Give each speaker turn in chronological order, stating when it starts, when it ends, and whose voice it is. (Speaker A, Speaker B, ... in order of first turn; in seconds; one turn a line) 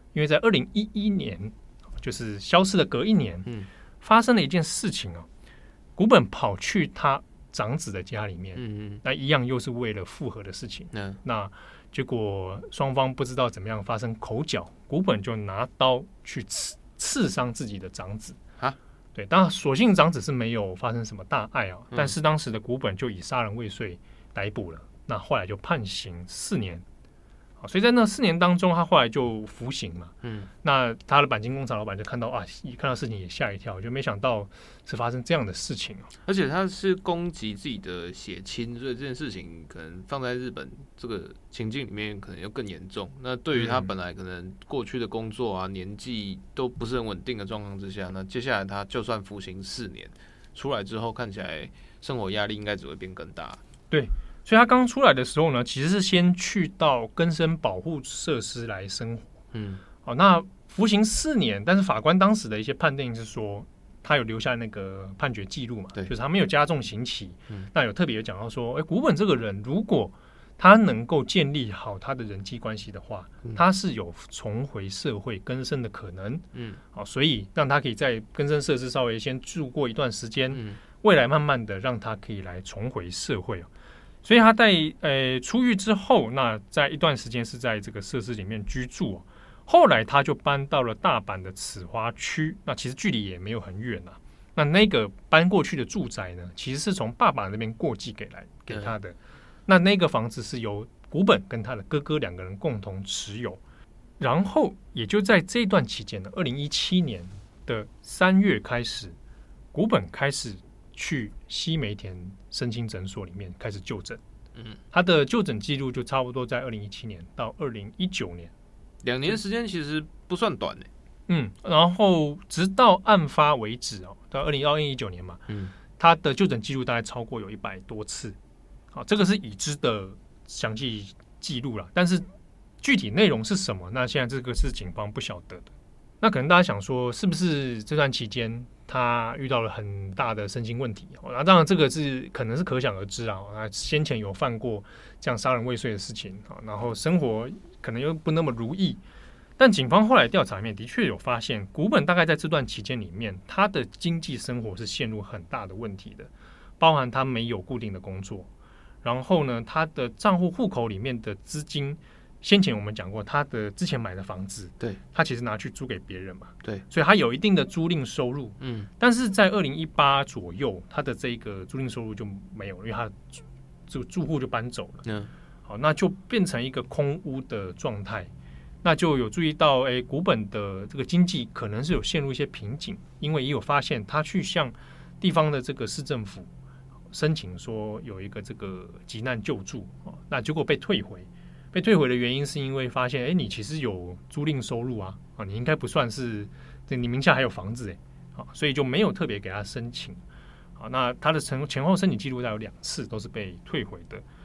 Speaker A: 0.1-3.5
Speaker A: 4.0-5.3
Speaker A: 6.0-18.4
Speaker B: 8.6-9.0
Speaker B: 10.9-11.2
Speaker A: 19.1-26.8
Speaker A: 27.6-36.1
Speaker B: 30.2-30.5
Speaker B: 36.2-53.6
Speaker A: 43.5-43.9
Speaker A: 53.9-59.3
Speaker B: 59.5-59.8
Speaker A: 60.0-83.7
Speaker B: 76.5-76.8
Speaker B: 80.5-80.8
Speaker A: 84.2-103.6
Speaker A: 104.2-109.2
Speaker A: 109.7-114.2
Speaker A: 114.9-118.5
Speaker B: 119.0-120.9
Speaker A: 121.3-125.4
Speaker B: 125.5-125.7
Speaker A: 126.0-128.4
Speaker A: 128.9-132.3
Speaker A: 132.8-149.0
Speaker A: 149.6-158.5
Speaker A: 159.0-175.0
Speaker B: 168.6-168.9
Speaker B: 175.0-175.3
Speaker A: 175.7-178.3
Speaker A: 178.8-186.5
Speaker A: 187.1-200.2
Speaker A: 200.8-204.2